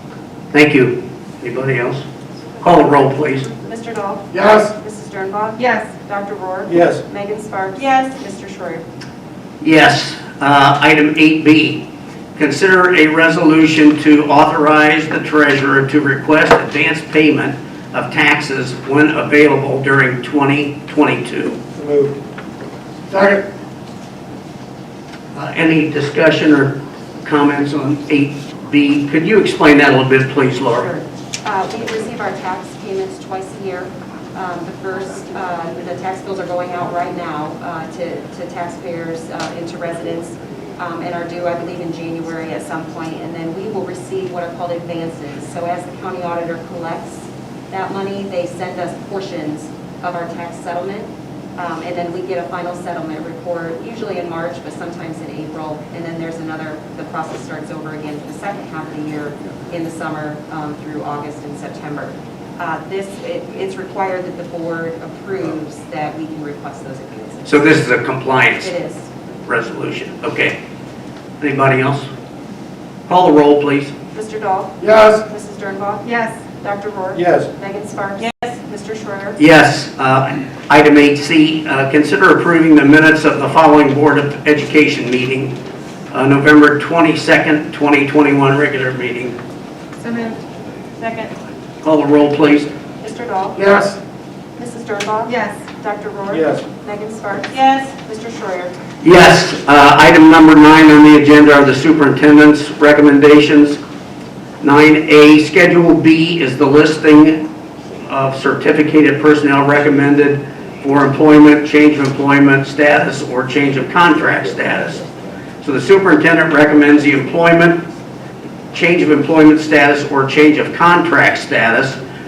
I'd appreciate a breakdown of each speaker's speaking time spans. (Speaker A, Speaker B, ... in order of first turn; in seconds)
Speaker A: 0.5-2.0, 2.6-3.5, 9.6-21.6, 25.4-30.9, 67.5-68.7, 69.5-70.6, 71.4-72.1, 73.1-73.9, 79.4-85.6, 86.1-89.4, 91.8-92.7, 99.0-103.8, 104.6-107.4, 108.0-115.1, 115.6-117.8, 118.7-122.0
Speaker B: 3.5-8.8, 30.8-67.8, 68.6-69.1, 74.1-76.1, 76.6-79.4, 93.0-93.6, 94.6-98.8
Speaker C: 4.3-4.7, 6.7-7.0, 21.8-22.1, 23.1-23.4, 74.8-75.2, 77.2-77.5, 93.6-94.0, 96.3-96.6
Speaker D: 5.6-5.9, 76.0-76.4, 90.0-90.4, 91.0-91.3, 95.3-95.6, 97.5-97.9